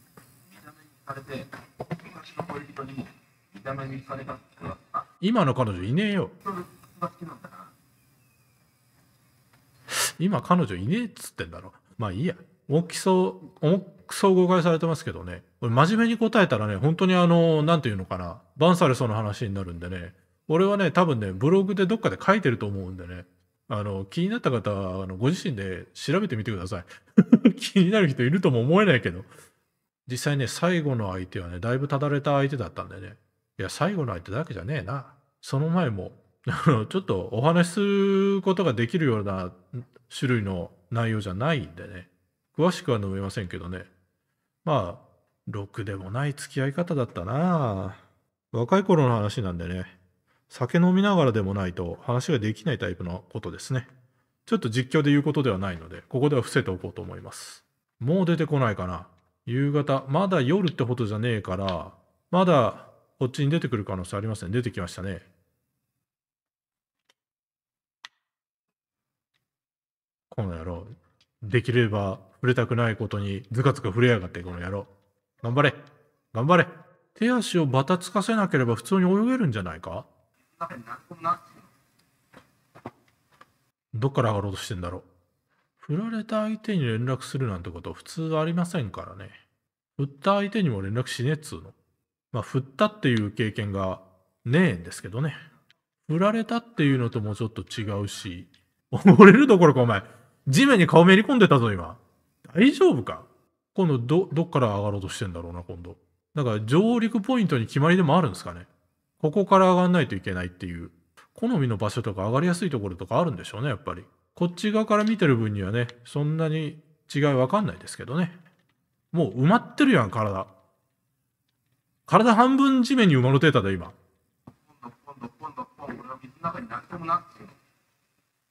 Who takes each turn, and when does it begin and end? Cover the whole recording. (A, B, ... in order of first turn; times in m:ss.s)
0:00.5-0:05.1 A
0:05.2-0:06.3 B
0:06.4-0:07.7 A
0:10.2-0:29.3 B
0:30.1-0:43.9 B
0:44.6-0:49.9 B
0:50.5-0:53.9 B
0:54.5-1:05.3 B
1:10.3-1:14.9 B
1:15.4-1:15.8 B
1:16.3-1:20.1 B
1:20.5-1:21.7 A
1:23.9-1:25.1 B
1:25.8-1:29.4 B
1:30.0-1:31.8 B
1:32.3-1:35.4 B
1:36.1-1:48.7 B
1:49.2-1:58.4 B
1:59.1-2:00.5 B
2:02.1-2:04.0 B
2:04.6-2:07.6 A